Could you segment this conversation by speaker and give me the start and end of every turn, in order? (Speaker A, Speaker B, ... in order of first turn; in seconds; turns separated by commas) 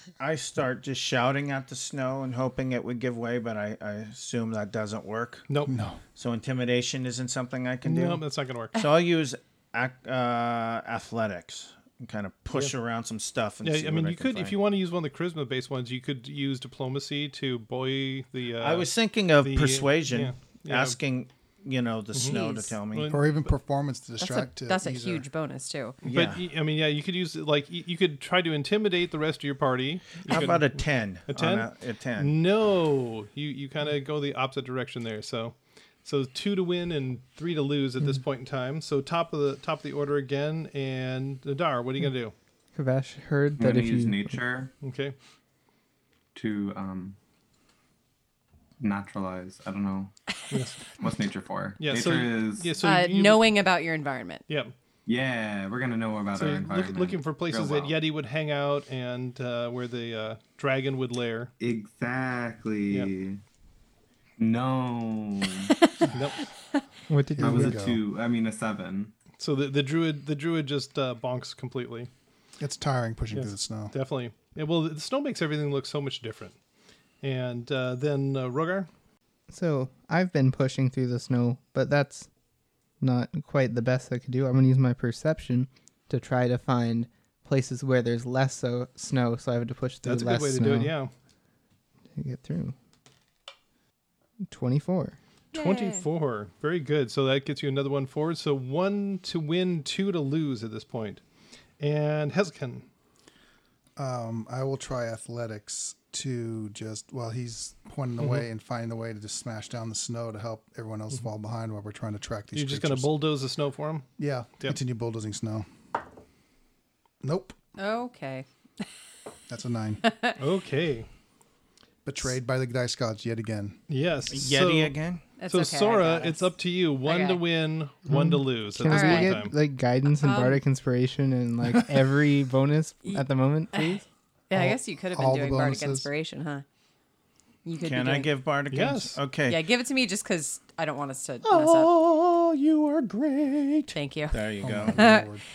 Speaker A: 0.2-5.5, Speaker B: 5.5-5.7, Speaker C: 5.7-6.0, Speaker A: 6.2-14.6, Speaker B: 7.8-8.7, Speaker B: 13.6-21.0, Speaker A: 18.6-23.1, Speaker D: 22.2-22.7, Speaker B: 22.9-23.5, Speaker C: 23.1-25.2, Speaker D: 24.2-26.0, Speaker B: 26.0-30.7, Speaker A: 26.1-26.4, Speaker A: 30.3-32.3, Speaker B: 31.3-42.3, Speaker E: 42.7-44.4, Speaker F: 43.6-44.7, Speaker B: 44.8-45.1, Speaker F: 46.3-47.2, Speaker F: 48.8-50.1, Speaker B: 50.5-51.0, Speaker F: 50.9-52.7, Speaker B: 51.8-53.4, Speaker D: 52.8-54.4, Speaker B: 54.5-54.7, Speaker F: 55.0-57.9, Speaker B: 56.3-61.5, Speaker F: 61.6-63.4, Speaker F: 64.4-65.7, Speaker B: 66.1-66.4, Speaker E: 67.1-67.9, Speaker C: 67.3-68.0, Speaker F: 67.4-69.1, Speaker B: 69.4-72.1, Speaker C: 72.6-73.9, Speaker B: 73.3-76.5, Speaker B: 77.2-78.9, Speaker E: 79.5-82.3, Speaker E: 83.0-91.0, Speaker B: 90.0-91.1, Speaker E: 92.1-92.7, Speaker E: 94.5-95.2, Speaker D: 95.5-96.0, Speaker B: 95.5-101.2, Speaker B: 101.8-102.8, Speaker C: 104.0-113.1, Speaker B: 108.2-108.4, Speaker B: 112.5-114.1, Speaker C: 114.2-115.7, Speaker C: 117.2-117.5, Speaker D: 117.8-118.8, Speaker C: 119.5-120.0, Speaker D: 120.0-120.3, Speaker B: 120.4-121.1, Speaker C: 122.0-123.8, Speaker B: 123.9-124.9, Speaker A: 124.3-125.2, Speaker D: 125.4-126.5, Speaker B: 125.5-129.5, Speaker D: 127.0-127.4, Speaker E: 128.1-134.0, Speaker D: 128.9-129.4, Speaker D: 130.2-130.6, Speaker D: 133.0-134.0, Speaker D: 134.5-136.6, Speaker C: 134.5-136.1, Speaker D: 137.6-138.3, Speaker A: 137.8-139.6, Speaker B: 138.7-139.2, Speaker D: 139.5-141.9, Speaker A: 141.5-145.0, Speaker D: 143.9-145.3, Speaker C: 144.6-145.4